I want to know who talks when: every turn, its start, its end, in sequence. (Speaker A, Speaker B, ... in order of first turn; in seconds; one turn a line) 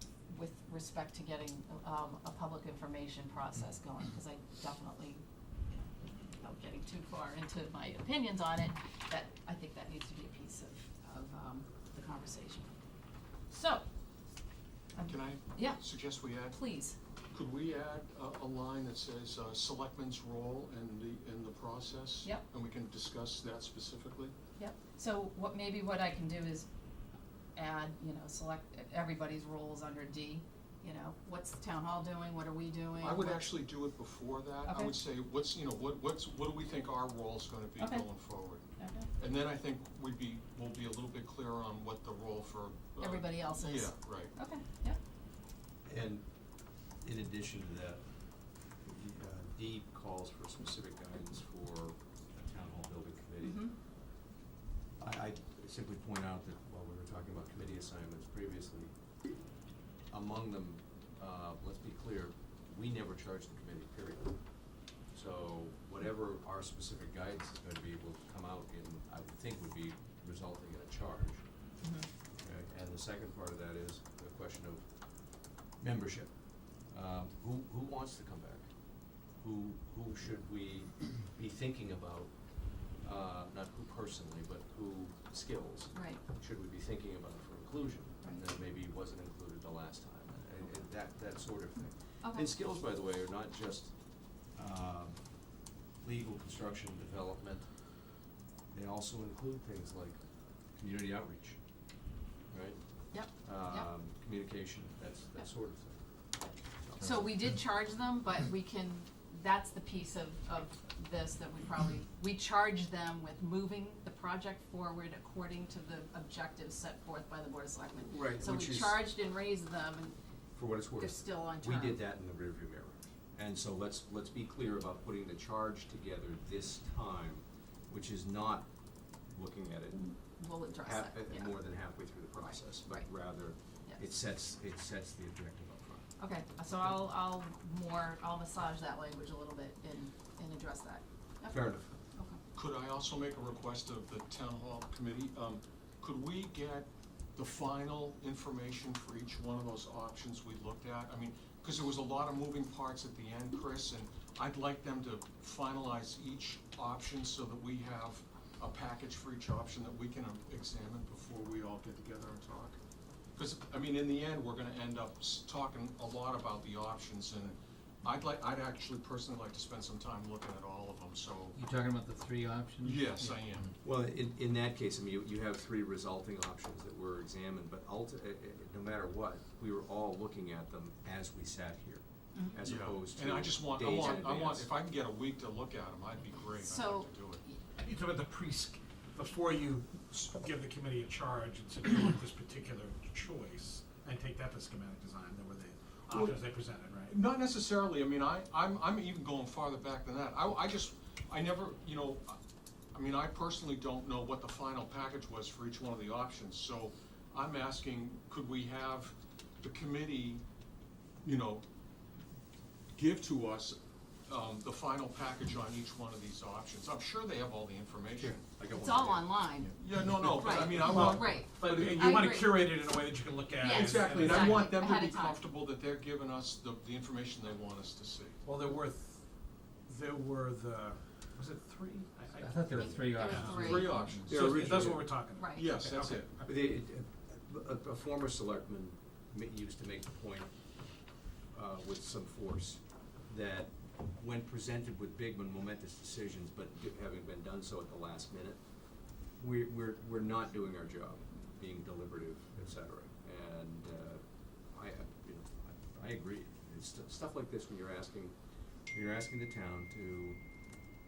Speaker A: 0.3-12.7
Speaker A: 13.5-13.8
Speaker A: 14.9-15.8
Speaker B: 15.0-16.6
Speaker A: 16.5-17.0
Speaker B: 17.3-24.3
Speaker A: 24.6-26.7
Speaker A: 27.5-33.4
Speaker B: 33.0-38.6
Speaker A: 34.6-34.9
Speaker A: 37.8-38.1
Speaker A: 38.8-39.1
Speaker B: 39.2-44.3
Speaker A: 43.0-45.0
Speaker C: 45.8-46.3
Speaker C: 47.0-53.7
Speaker A: 53.4-53.7
Speaker C: 55.0-58.9
Speaker C: 60.1-71.5
Speaker A: 71.8-72.1
Speaker C: 72.3-98.0
Speaker A: 85.9-86.2
Speaker A: 92.2-92.5
Speaker C: 98.7-100.2
Speaker C: 100.7-101.6
Speaker C: 102.5-107.3
Speaker A: 103.1-103.9
Speaker A: 107.0-120.2
Speaker C: 118.0-119.0
Speaker C: 120.5-130.2
Speaker A: 121.0-122.0
Speaker A: 129.9-131.6
Speaker C: 130.8-136.1
Speaker A: 132.4-133.2
Speaker A: 136.2-142.4
Speaker C: 141.5-141.9
Speaker B: 142.5-162.8
Speaker B: 163.3-171.6
Speaker D: 171.5-173.3
Speaker B: 172.8-173.8
Speaker C: 173.8-184.7
Speaker A: 182.3-182.6
Speaker B: 182.6-187.4
Speaker A: 186.6-187.6
Speaker E: 187.8-197.2
Speaker B: 196.1-196.4
Speaker B: 197.1-202.4
Speaker B: 202.9-210.4
Speaker B: 211.2-211.6
Speaker B: 212.9-218.4
Speaker C: 218.4-219.7
Speaker A: 218.7-222.7
Speaker B: 219.7-222.3
Speaker E: 220.6-224.8
Speaker A: 223.6-225.4
Speaker B: 223.7-228.4
Speaker E: 228.4-229.2
Speaker E: 229.8-236.5
Speaker D: 232.4-234.5
Speaker A: 232.8-234.0
Speaker B: 233.3-234.8
Speaker C: 234.3-235.3
Speaker A: 235.3-235.7
Speaker B: 235.5-236.3
Speaker C: 236.4-240.5
Speaker C: 241.5-248.6
Speaker C: 249.4-258.3
Speaker C: 258.9-260.4